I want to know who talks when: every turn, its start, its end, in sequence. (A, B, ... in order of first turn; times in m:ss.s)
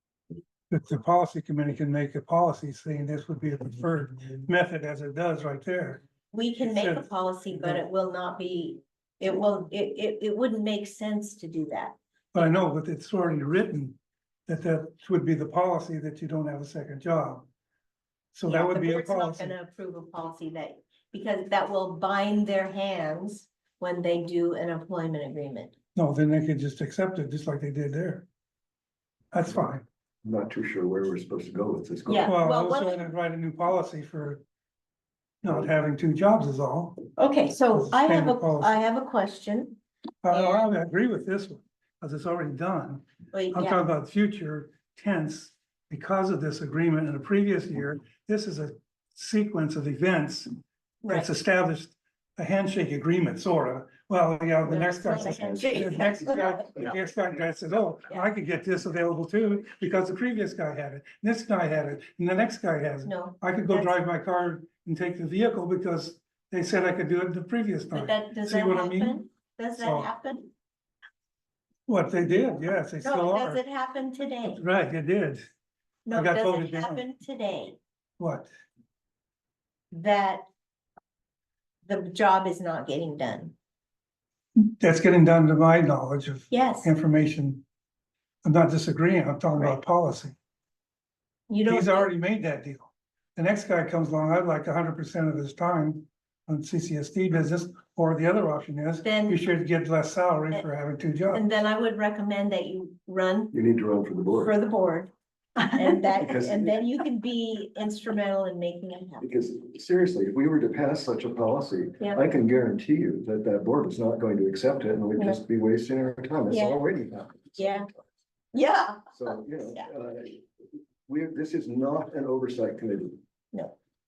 0:00.7-0:06.0 A
0:06.3-0:12.0 B
0:06.6-0:07.0 A
0:12.3-0:17.4 A
0:18.3-0:19.5 A
0:18.5-0:25.7 B
0:25.9-0:28.2 A
0:29.3-0:29.8 A
0:30.2-0:32.3 C
0:32.1-0:33.0 B
0:32.2-0:34.4 A
0:35.4-0:37.1 A
0:37.2-0:39.8 B
0:37.7-0:38.7 A
0:40.2-0:50.5 A
0:40.3-0:40.6 B
0:43.3-0:43.8 B
0:51.0-0:51.3 B
0:51.0-1:09.2 A
0:54.6-0:56.7 B
0:55.4-0:56.0 C
1:03.0-1:04.0 B
1:07.9-1:10.5 B
1:09.8-1:10.1 A
1:11.9-1:13.6 A
1:13.0-1:14.6 B
1:14.5-1:15.4 A
1:16.0-1:17.8 B
1:16.1-1:17.0 A
1:18.2-1:18.5 A
1:19.9-1:20.4 B
1:21.8-1:23.5 B
1:24.6-1:27.6 A
1:26.5-1:26.9 B
1:28.4-1:30.4 A
1:31.5-1:32.1 B
1:31.7-1:41.5 A
1:39.0-1:39.4 B
1:41.3-1:43.5 B
1:43.5-1:44.5 C
1:44.3-1:49.2 B
1:46.2-1:46.7 C
1:49.2-1:58.1 C
1:56.5-1:56.8 B
1:57.5-1:57.9 B
1:58.5-1:59.8 B
1:59.1-2:00.4 C
2:01.1-2:03.2 C